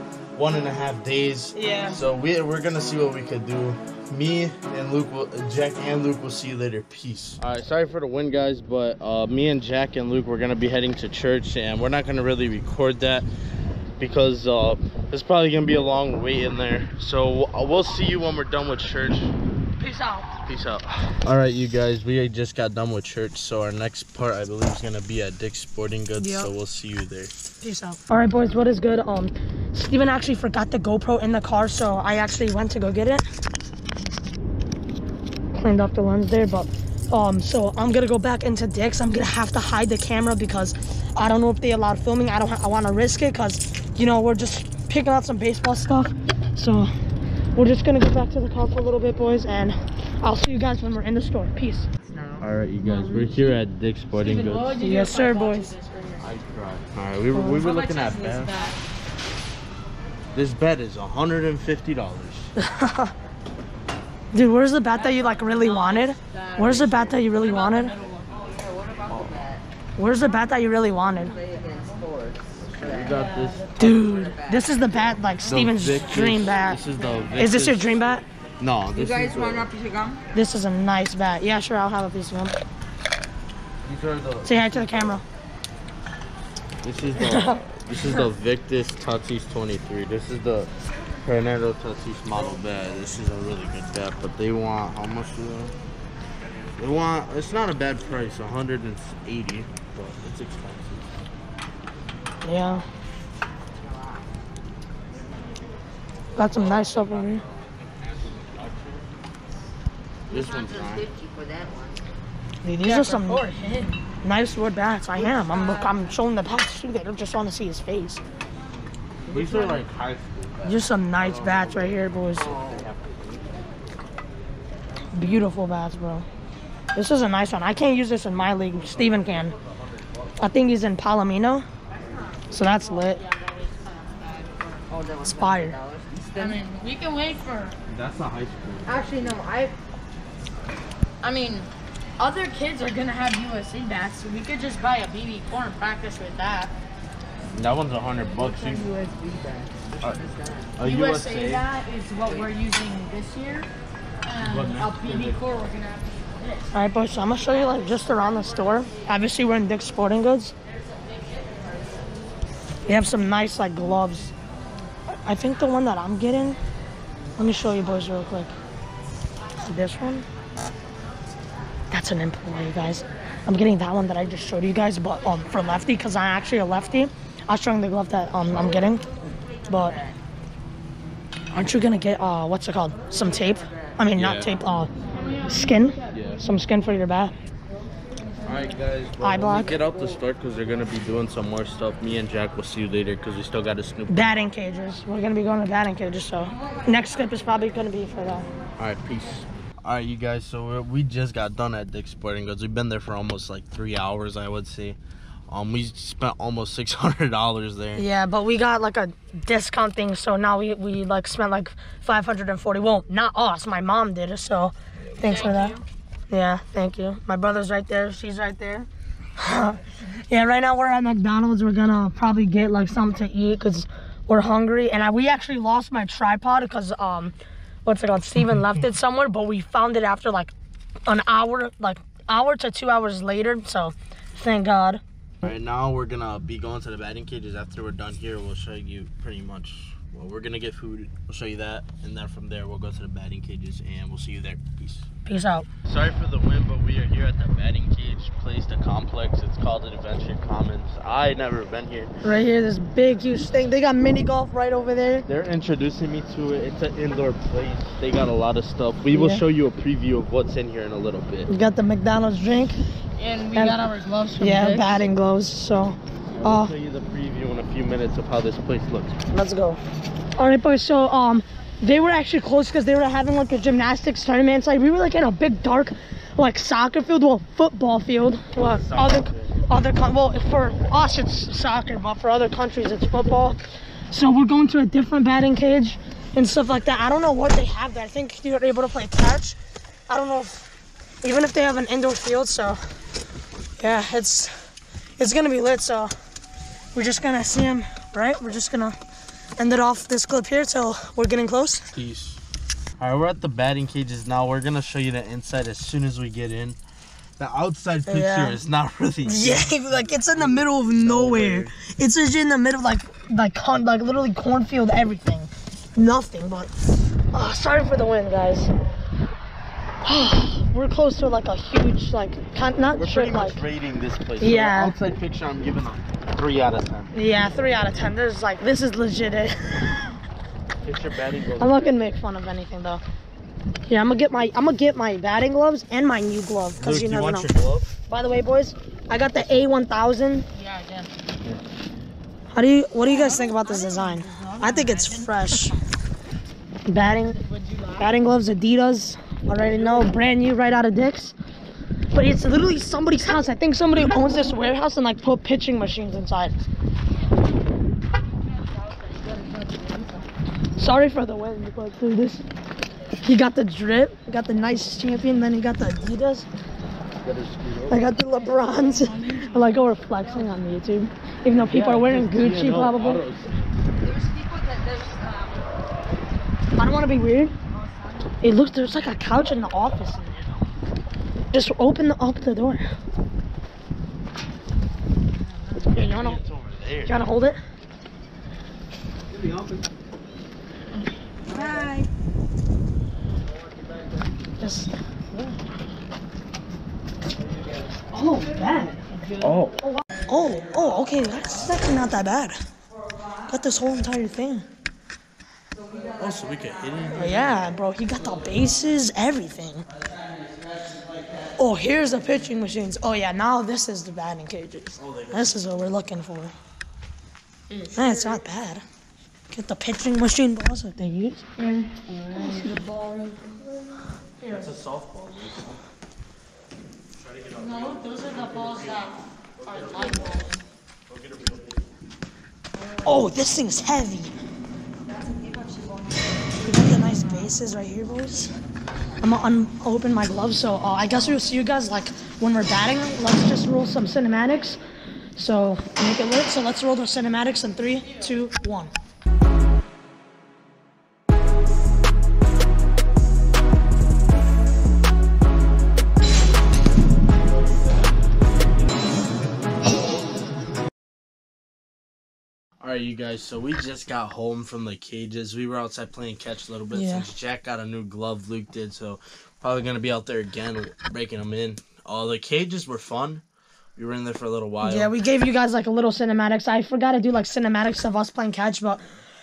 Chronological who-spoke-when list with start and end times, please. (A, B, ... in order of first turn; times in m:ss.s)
0:00.4-0:13.3 A
0:01.5-0:02.0 B
0:14.0-0:19.3 A
0:19.8-0:20.3 B
0:20.4-0:27.3 A
0:26.2-0:26.5 B
0:27.6-0:33.3 B
0:35.5-0:46.9 B
0:47.6-0:51.9 B
0:52.1-0:52.4 C
0:52.4-0:54.8 A
0:52.8-0:53.4 D
0:54.1-0:56.3 D
0:54.8-0:55.7 B
0:56.2-0:58.5 A
0:57.5-0:58.8 D
1:00.3-1:02.5 A
1:02.6-1:03.1 B
1:04.3-1:08.0 B
1:05.0-1:06.8 D
1:06.6-1:07.2 A
1:07.3-1:08.5 D
1:08.6-1:09.6 C
1:09.1-1:09.4 A
1:10.0-1:11.4 B
1:11.3-1:13.2 C
1:12.7-1:13.9 A
1:13.8-1:14.6 C
1:13.8-1:16.8 B
1:15.4-1:18.0 A
1:17.4-1:18.2 B
1:18.6-1:19.7 A
1:18.9-1:20.2 C
1:20.3-1:22.6 B
1:23.8-1:25.2 A
1:24.4-1:25.2 B
1:26.8-1:30.7 A
1:27.2-1:28.2 B
1:31.2-1:35.7 A
1:36.8-1:41.1 A
1:42.4-1:42.8 B
1:43.8-1:44.2 C
1:46.4-1:47.4 B
1:46.4-1:49.1 A
1:50.3-1:51.1 A
1:50.3-1:52.0 C
1:52.6-1:53.5 B
1:52.8-1:54.0 D
1:54.2-1:58.2 B
1:55.2-1:56.1 D
1:59.3-2:03.6 A
2:00.6-2:02.5 B
2:05.1-2:06.3 B
2:06.9-2:09.6 B
2:09.0-2:09.5 A
2:10.4-2:11.6 B
2:12.5-2:13.2 B
2:13.0-2:14.9 D
2:14.9-2:16.6 C
2:15.2-2:15.8 B
2:16.4-2:17.8 D
2:17.9-2:19.4 A
2:18.9-2:19.7 C
2:21.2-2:26.7 D
2:27.5-2:28.9 A
2:28.4-2:30.8 C
2:30.8-2:31.6 A
2:30.8-2:33.7 D
2:34.2-2:36.7 D
2:34.4-2:35.5 A
2:36.7-2:40.5 B
2:37.4-2:39.0 D
2:40.8-2:41.7 D
2:42.9-2:44.3 B
2:45.2-2:46.6 B
2:47.4-2:48.5 B
2:49.6-2:50.3 B
2:51.9-2:59.0 B
2:59.7-3:00.0 B
3:01.5-3:04.9 B
3:04.2-3:04.5 A
3:05.2-3:05.5 D
3:05.4-3:07.3 B
3:06.1-3:06.4 A
3:08.4-3:14.5 A
3:09.2-3:09.8 B
3:14.1-3:18.5 B
3:18.8-3:25.0 A
3:25.5-3:28.0 A
3:28.0-3:35.8 B
3:35.2-3:35.8 D
3:36.3-3:50.5 B
3:51.1-3:55.0 B
3:55.4-4:05.1 A
4:05.3-4:05.7 B
4:05.8-4:12.1 A
4:12.2-4:15.3 B
4:15.3-4:21.5 A
4:19.1-4:19.4 B
4:21.5-4:22.8 B
4:23.2-4:25.1 D
4:23.5-4:23.8 B
4:24.4-4:26.7 B
4:26.4-4:29.2 A
4:29.3-4:29.8 B
4:30.4-4:49.6 B
4:38.6-4:39.6 A
4:50.1-4:50.7 B
4:51.2-4:52.8 B
4:53.8-4:56.1 B
4:57.0-4:59.0 B
4:59.6-5:01.9 B
5:01.9-5:02.4 A
5:03.0-5:06.8 A
5:07.4-5:11.7 A
5:08.1-5:08.6 B
5:09.3-5:16.7 B
5:17.3-5:18.7 B
5:20.0-5:23.6 B
5:22.9-5:27.1 A
5:24.4-5:25.0 B
5:27.1-5:30.1 B
5:30.8-5:31.8 A
5:31.6-5:33.0 B
5:33.9-5:37.5 B
5:36.8-5:37.9 A
5:38.1-5:40.5 B
5:39.3-5:39.7 A
5:40.5-5:41.1 D
5:42.5-5:45.8 B
5:43.0-5:45.7 D
5:46.9-5:47.4 B
5:47.2-5:48.1 D
5:48.0-5:51.4 B
5:52.1-5:56.6 B
5:58.8-6:00.2 D
6:00.8-6:02.4 B
6:03.2-6:06.5 B
6:07.2-6:08.0 A
6:07.9-6:13.2 B
6:08.6-6:09.7 D
6:11.5-6:13.9 A
6:14.0-6:15.5 C
6:16.8-6:17.6 B
6:18.4-6:20.5 B
6:21.5-6:22.8 B
6:25.8-6:26.4 B
6:25.9-6:27.2 A
6:27.1-6:27.6 B
6:31.5-6:32.0 D
6:34.6-6:35.6 B
6:38.1-6:42.6 B
6:39.4-6:39.8 A
6:43.5-6:44.6 B
6:46.1-6:47.7 A
6:47.1-6:49.8 B
6:51.6-6:56.5 B
6:55.0-6:56.0 A
6:57.7-6:58.4 D
6:57.9-6:58.8 B
6:59.5-7:01.5 B
7:01.6-7:03.2 D
7:02.3-7:03.4 B
7:04.5-7:05.8 A
7:07.2-7:09.1 A
7:07.6-7:10.6 D
7:09.6-7:10.5 A
7:11.1-7:11.9 A
7:13.0-7:14.3 B
7:16.6-7:18.5 B
7:19.2-7:24.8 B
7:21.1-7:21.4 A
7:25.4-7:28.9 B
7:42.8-7:53.4 A
7:46.9-7:47.3 B
7:54.0-7:55.1 A
7:54.8-7:59.0 B